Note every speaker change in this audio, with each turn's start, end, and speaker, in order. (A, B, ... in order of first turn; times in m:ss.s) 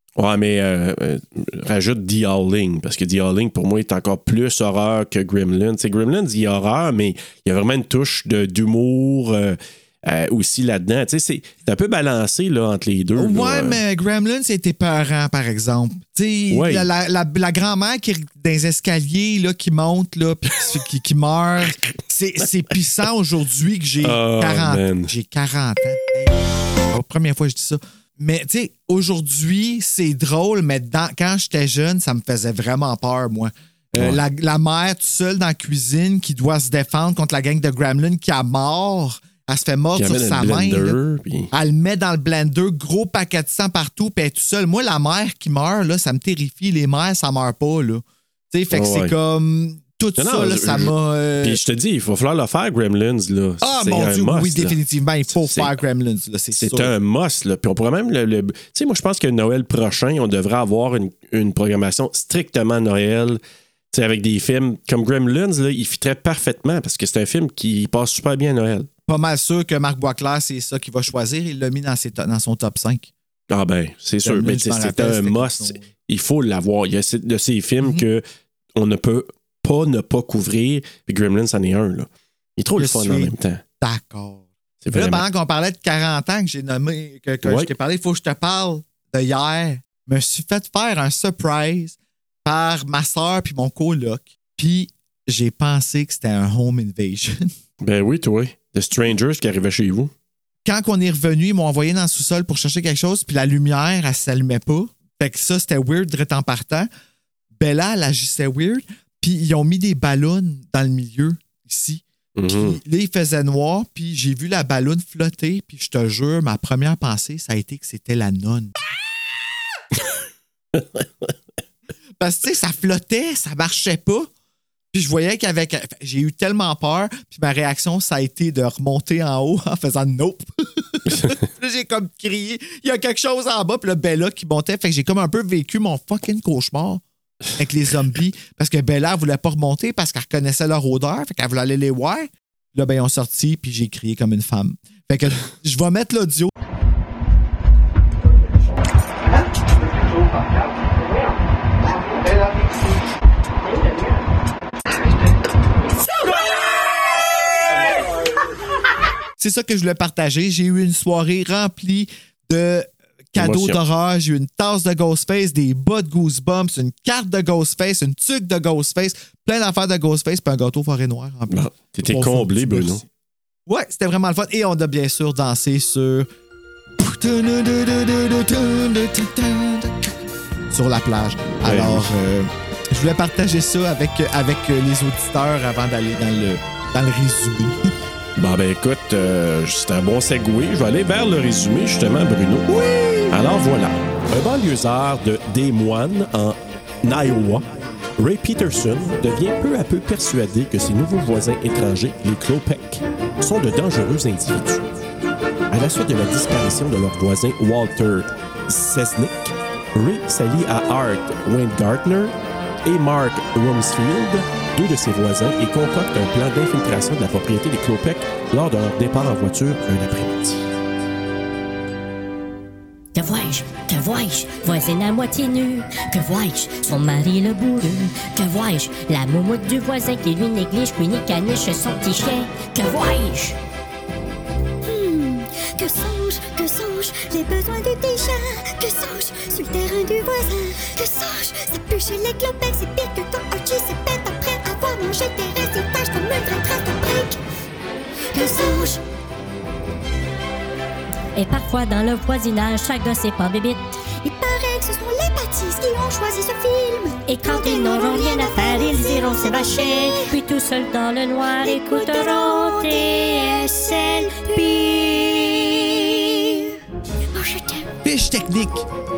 0:00.2-0:13.8 A
0:13.2-0:41.0 B
0:16.5-0:16.9 A
0:24.0-0:25.1 A
0:39.9-0:41.5 A
0:41.5-0:51.6 B
0:48.7-0:49.1 A
0:50.2-0:54.8 A
0:53.6-0:56.9 B
0:55.3-0:55.7 A
0:56.5-1:03.4 A
1:03.9-1:08.9 A
1:09.1-1:13.1 B
1:13.5-1:18.2 A
1:14.2-1:15.9 B
1:18.7-1:23.6 A
1:22.8-1:37.5 B
1:24.8-1:25.2 A
1:27.4-1:27.7 A
1:37.8-1:40.1 A
1:40.6-1:46.9 B
1:47.6-1:58.7 B
1:52.4-1:52.8 A
2:00.7-2:01.3 A
2:02.2-2:04.3 B
2:04.9-2:17.0 B
2:17.6-2:26.5 B
2:39.4-2:53.0 B
2:43.4-2:43.8 A
2:51.5-2:53.0 A
2:53.7-2:56.3 B
2:57.0-3:00.2 B
3:00.7-3:07.9 B
3:01.6-3:02.1 A
3:08.4-3:12.7 A
3:12.7-3:13.4 B
3:13.3-3:24.9 A
3:25.7-3:40.6 A
3:43.1-3:53.6 C
3:54.8-4:07.4 D
4:08.3-4:09.0 D
4:11.3-4:13.8 C
4:14.2-4:20.4 D
4:17.3-4:25.2 C
4:21.5-4:26.6 D
4:27.3-4:27.9 D
4:28.0-4:28.8 B